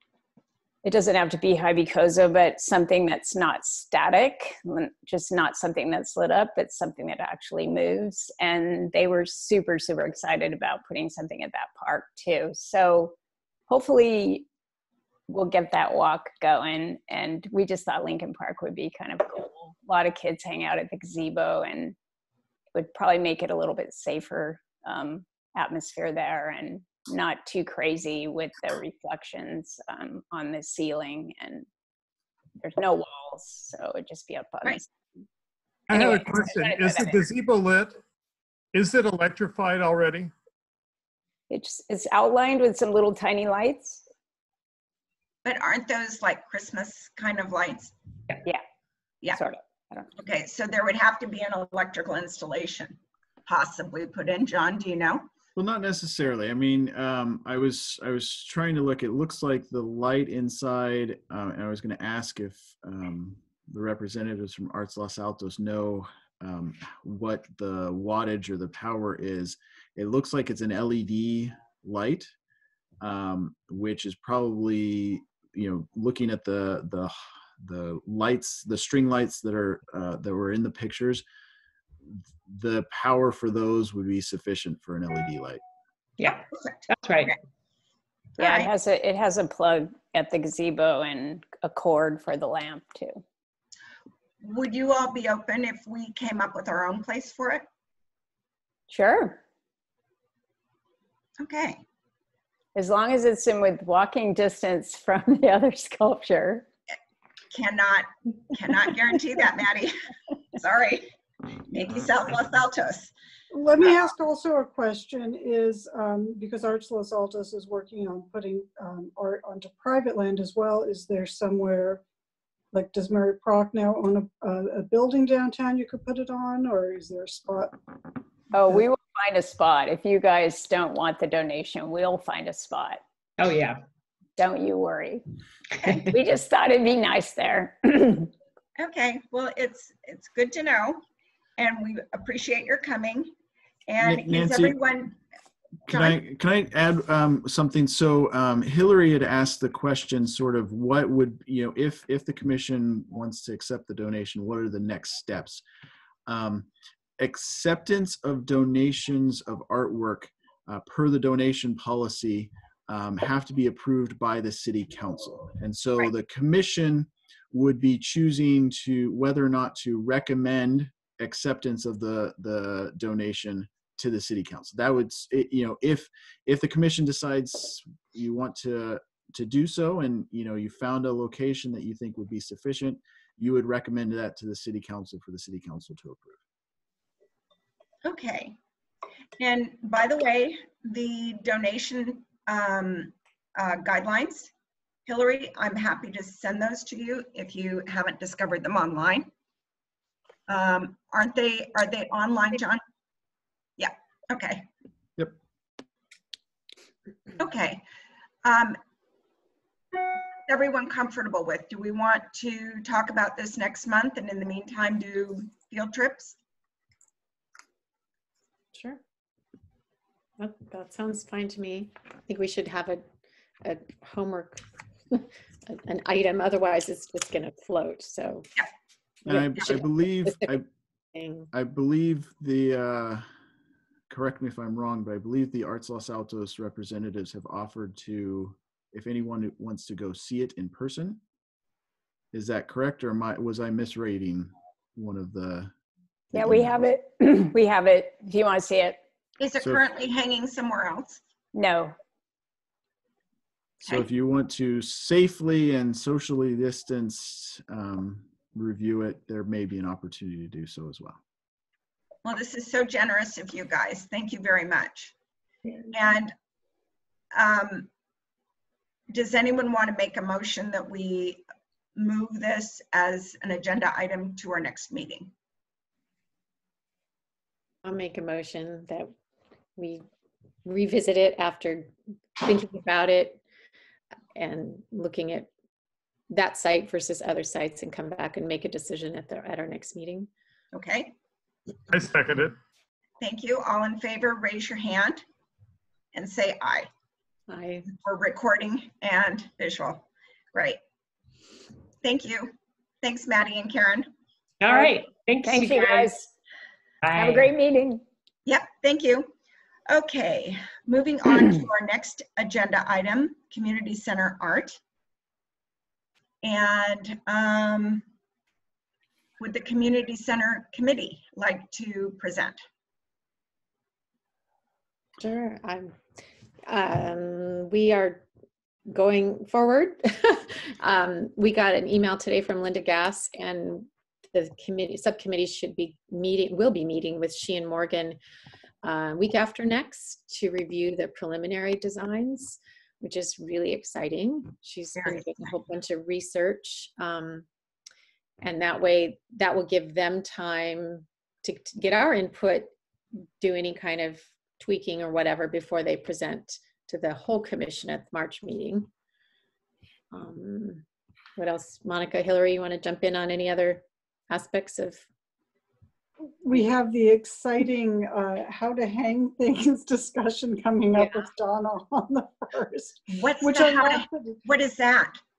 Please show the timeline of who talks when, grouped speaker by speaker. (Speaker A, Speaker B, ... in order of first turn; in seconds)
Speaker A: 0.8-13.2, 13.7-14.5, 15.3-22.0, 22.8-31.7, 32.6-34.9, 35.9-37.3, 41.5-44.1, 49.3-50.1, 88.4-93.2, 98.9-99.4, 102.8-106.7, 128.5-133.0, 134.4-135.3, 135.9-138.3, 246.3-249.0, 251.5-252.0, 304.6-306.3, 307.1-308.0
Speaker B: 35.9-38.0, 38.7-40.3, 291.9-292.6
Speaker C: 45.5-47.9, 50.2-55.3, 86.2-87.3, 88.4-88.7, 94.4-97.7, 101.4-101.8, 107.5-109.9, 110.6-111.1, 111.7-113.1, 113.8-114.1, 138.8-141.0, 141.6-143.3, 143.9-145.2, 145.9-146.2, 188.0-188.6, 189.4-194.5, 195.1-199.3, 200.5-202.8, 203.8-204.7, 207.4-207.8, 208.4-208.8, 210.5-216.4, 249.4-251.2, 262.2-265.1, 265.9-266.3, 267.3-267.9, 269.1-271.4, 272.0-275.3, 290.7-291.1, 293.2-295.2, 296.1-296.9, 298.0-300.8, 302.0-304.1, 308.5-309.3, 309.9-314.8, 316.4-318.1, 319.4-322.6, 345.0-345.3, 373.1-375.2
Speaker D: 55.6-72.3, 73.0-81.2, 82.1-85.6, 144.0-144.8, 145.9-155.6, 156.3-186.4, 229.3-230.7, 231.5-233.3, 234.1-241.2, 242.3-245.7, 246.3-246.8, 253.8-261.2
Speaker E: 86.2-87.4, 133.4-133.8, 304.6-306.2, 307.0-307.5
Speaker F: 113.5-122.0, 122.7-127.8, 366.4-374.4
Speaker G: 218.7-219.0, 220.4-223.1, 223.6-228.5, 229.2-230.5, 231.1-231.5, 277.8-279.1, 279.8-280.1, 280.6-283.4, 284.4-285.5, 286.3-290.3, 297.5-297.9, 325.2-326.0, 326.7-328.2, 328.9-338.2, 338.8-347.5, 348.4-352.7, 353.4-358.9, 360.1-360.8, 361.4-365.1, 370.9-371.3